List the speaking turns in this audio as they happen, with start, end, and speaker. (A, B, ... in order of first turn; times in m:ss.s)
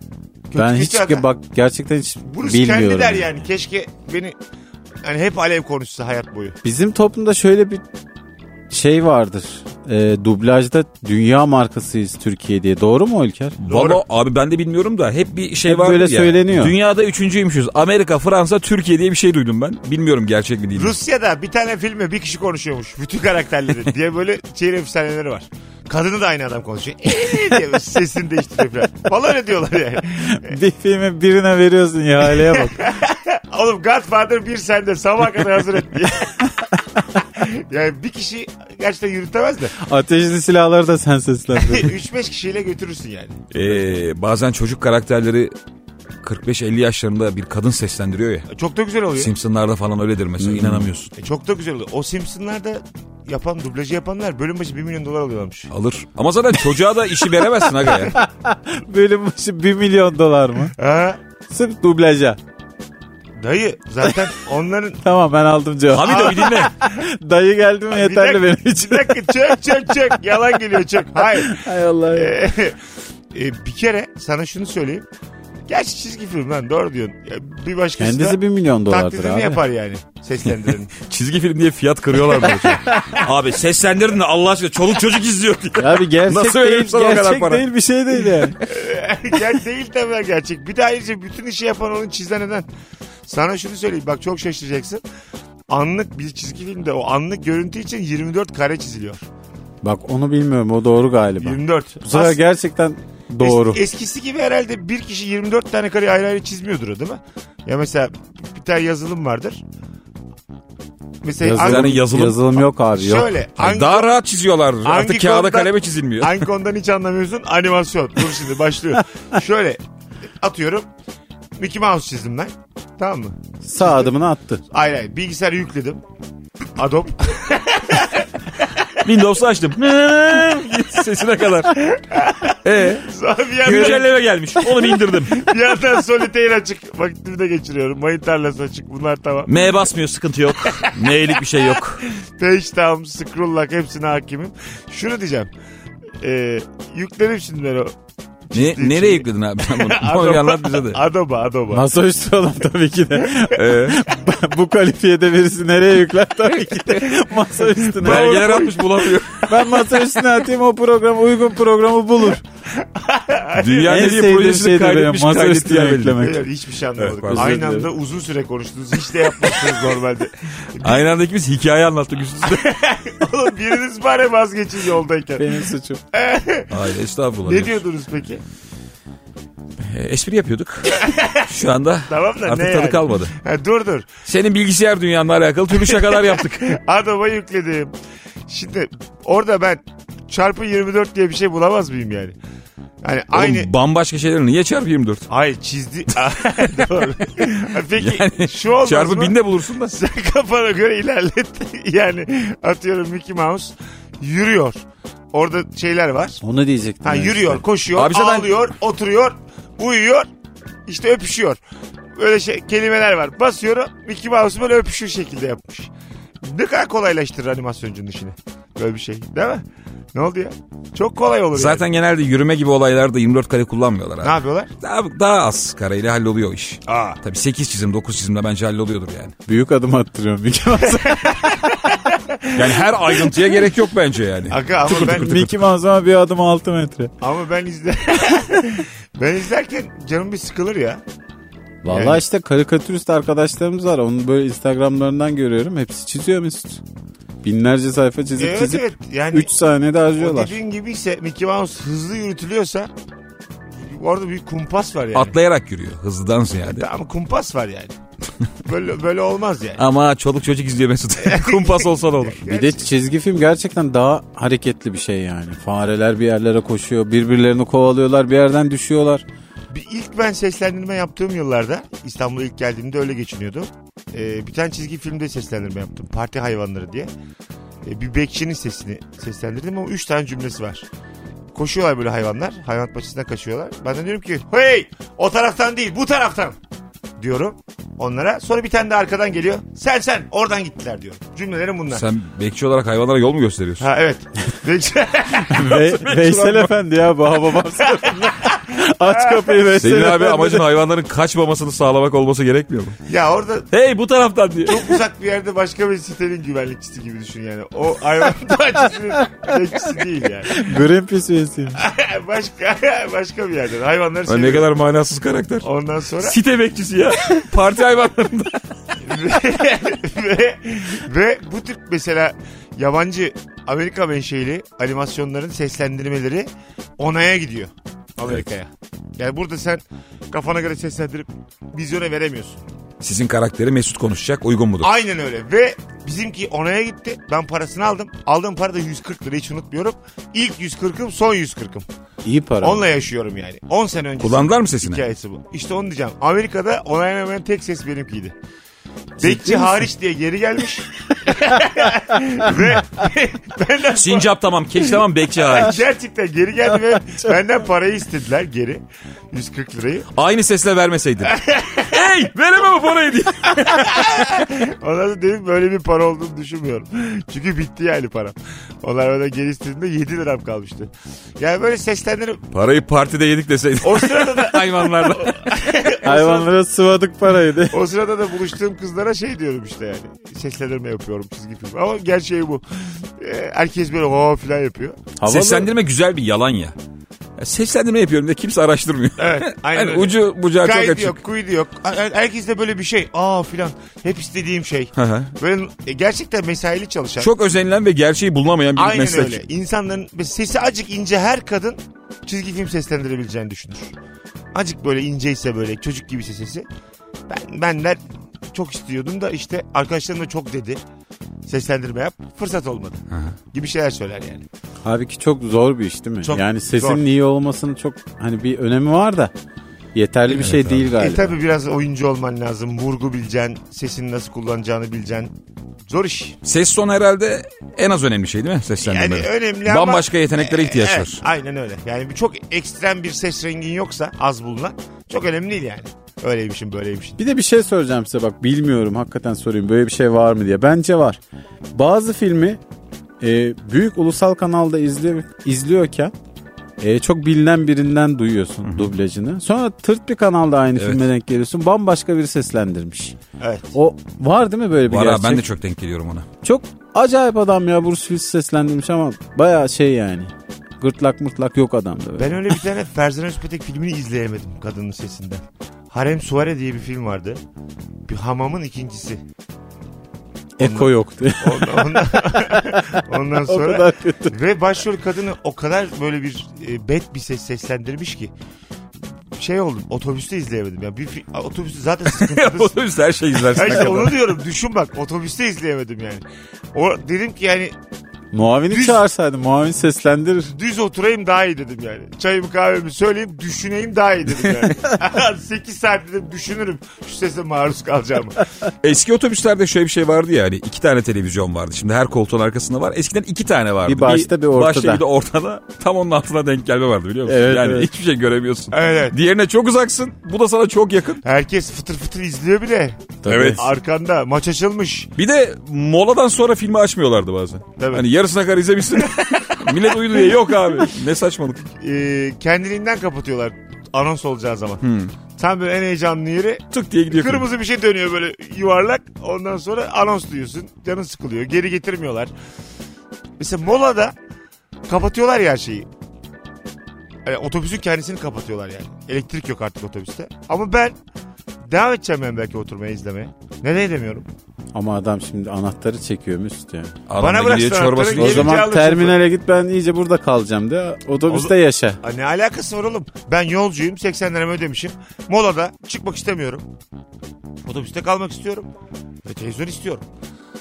0:00.5-0:01.2 A
0:00.5-0:03.4 B
0:02.3-0:04.4 A
0:05.0-0:06.6 A
0:06.6-0:07.8 B
0:08.7-0:13.6 B
0:13.6-0:21.0 C
0:13.7-0:14.0 A
0:15.7-0:16.8 B
0:20.7-0:30.6 A
0:30.3-0:32.8 B
0:32.3-0:36.6 A
0:37.1-0:39.7 A
0:39.7-0:41.9 B
0:41.5-0:43.4 A
0:43.5-0:45.5 C
0:46.2-0:48.5 C
0:48.5-0:49.3 A
0:49.1-0:51.1 C
0:50.4-0:50.9 B
0:51.2-0:55.7 A
0:55.7-0:58.1 C
0:57.8-1:00.7 B
1:00.7-1:01.2 A
1:01.5-1:02.4 B
1:03.4-1:05.0 A
1:05.0-1:09.4 B
1:05.9-1:06.7 C
1:06.0-1:06.7 A
1:07.9-1:12.8 A
1:11.3-1:12.3 B
1:13.3-1:15.1 A
1:15.7-1:20.9 A
1:18.0-1:19.6 B
1:21.0-1:27.6 C
1:22.5-1:22.9 A
1:25.8-1:28.6 B
1:28.2-1:28.5 C
1:28.6-1:32.7 A
1:33.2-1:35.0 A
1:35.7-1:39.2 A
1:39.8-1:43.8 B
1:41.4-1:42.4 A
1:43.4-1:49.6 A
1:51.2-1:52.0 A
1:51.4-1:53.3 B
1:51.5-1:52.6 C
1:52.9-1:54.2 A
1:53.6-1:56.4 C
1:54.8-1:59.8 A
2:00.4-2:00.9 A
2:01.6-2:04.0 A
2:03.6-2:04.6 B
2:04.7-2:06.0 A
2:06.8-2:08.9 A
2:09.0-2:11.8 C
2:11.9-2:19.6 A
2:12.6-2:13.1 C
2:13.6-2:15.5 C
2:13.7-2:14.0 B
2:19.4-2:22.0 C
2:20.6-2:21.1 A
2:22.2-2:25.5 A
2:26.2-2:27.9 A
2:28.5-2:31.8 A
2:28.5-2:31.0 C
2:31.7-2:38.6 B
2:33.5-2:34.0 C
2:38.0-2:39.5 C
2:38.0-2:39.2 A
2:39.5-2:42.4 B
2:42.7-2:44.1 A
2:43.6-2:46.2 C
2:43.8-2:46.5 B
2:46.2-2:51.1 A
2:47.0-2:47.5 C
2:47.3-2:47.9 B
2:50.8-2:52.7 C
2:52.4-2:55.6 A
2:55.4-2:56.0 B
2:56.1-2:56.7 A
2:56.7-2:57.8 C
2:57.4-2:58.4 A
2:59.8-3:03.3 C
3:00.9-3:01.5 A
3:02.1-3:04.1 A
3:04.2-3:06.8 C
3:05.7-3:07.9 A
3:08.5-3:12.4 A
3:13.0-3:13.7 A
3:13.3-3:15.3 C
3:15.3-3:24.8 A
3:18.0-3:20.0 C
3:25.3-3:26.4 A
3:26.4-3:27.6 B
3:27.0-3:30.3 A
3:27.9-3:28.6 C
3:30.8-3:31.6 A
3:32.2-3:41.8 A
3:41.5-3:49.3 C
3:44.2-3:44.7 A
3:46.9-3:47.2 A
3:49.4-3:51.6 B
3:50.9-3:53.4 A
3:52.5-3:55.6 C
3:54.5-3:55.4 A
3:54.9-3:57.1 B
3:57.2-4:01.0 A
4:01.8-4:06.8 B
4:01.9-4:02.2 A
4:07.4-4:10.6 B
4:08.4-4:09.5 A
4:10.2-4:12.9 A
4:13.7-4:15.4 A
4:15.1-4:16.9 C
4:16.6-4:18.0 A
4:18.6-4:19.8 A
4:19.8-4:22.5 C
4:21.2-4:22.9 A
4:22.5-4:29.2 B
4:29.7-4:37.1 A
4:37.8-4:40.9 A
4:41.5-4:46.6 A
4:47.2-4:52.0 A
4:51.9-4:53.9 C
4:53.8-4:55.7 A
4:55.5-5:00.6 B
4:55.6-4:56.7 C
4:57.8-4:59.6 A
4:59.8-5:03.0 C
5:03.1-5:03.7 A
5:03.7-5:05.0 C
5:04.6-5:10.7 A
5:10.5-5:11.8 B
5:11.8-5:14.7 A
5:14.2-5:15.6 C
5:15.6-5:16.4 A
5:16.2-5:18.9 C
5:19.0-5:32.6 A
5:33.0-5:34.9 C
5:34.8-5:41.8 A
5:42.2-5:42.8 B
5:42.6-5:48.4 A
5:44.2-5:45.0 C
5:49.2-5:54.3 A
5:49.2-5:49.8 B
5:53.9-5:55.8 C
5:55.4-6:00.1 A
6:00.1-6:04.2 C
6:01.2-6:02.0 A
6:03.6-6:12.4 A
6:12.5-6:15.4 C
6:13.8-6:16.5 A
6:16.0-6:17.8 B
6:17.7-6:25.0 A
6:25.2-6:25.7 B
6:25.2-6:26.7 C
6:27.4-6:31.2 C
6:29.2-6:37.3 A
6:35.0-6:35.3 C
6:37.2-6:39.4 C
6:38.8-6:43.9 A
6:44.5-6:46.7 A
6:47.3-6:50.8 A
6:51.4-6:54.4 A
6:53.1-6:53.4 C
6:54.8-6:59.3 B
6:56.2-6:57.0 A
6:59.9-7:01.3 B
7:00.3-7:00.9 C
7:00.9-7:05.4 A
7:05.9-7:06.4 A
7:06.4-7:11.2 C
7:08.8-7:17.2 A
7:17.2-7:21.2 B
7:21.7-7:22.6 B
7:23.2-7:26.1 B
7:26.8-7:33.1 B
7:28.6-7:28.9 C
7:30.8-7:31.0 C
7:33.4-7:33.7 A
7:33.7-7:35.4 B
7:34.9-7:36.3 C
7:36.4-7:42.6 B
7:42.2-7:47.4 A
7:48.0-7:49.2 A
7:50.6-7:54.4 B
7:50.6-7:58.3 A
7:59.3-8:02.8 A
8:02.1-8:04.2 C
8:03.5-8:07.7 A
8:08.3-8:10.5 B
8:08.7-8:09.0 A
8:10.5-8:18.4 A
8:18.8-8:31.2 C
8:23.8-8:25.0 B
8:27.2-8:27.9 B
8:28.7-8:29.2 A
8:31.2-8:35.1 A
8:33.2-8:33.6 B
8:33.3-8:33.7 C
8:35.2-8:41.6 C
8:37.8-8:38.1 A
8:39.0-8:40.4 A
8:41.6-8:44.8 A
8:44.8-8:45.1 C
8:45.4-8:52.3 A
8:46.7-8:47.4 C
8:53.4-8:54.2 A
8:54.9-8:55.9 A
8:57.2-9:01.0 A
9:01.6-9:04.3 A
9:04.7-9:06.9 B
9:07.1-9:08.6 C
9:07.2-9:09.2 A
9:08.2-9:12.0 B
9:11.3-9:16.6 A
9:17.6-9:18.7 A
9:19.2-9:20.0 A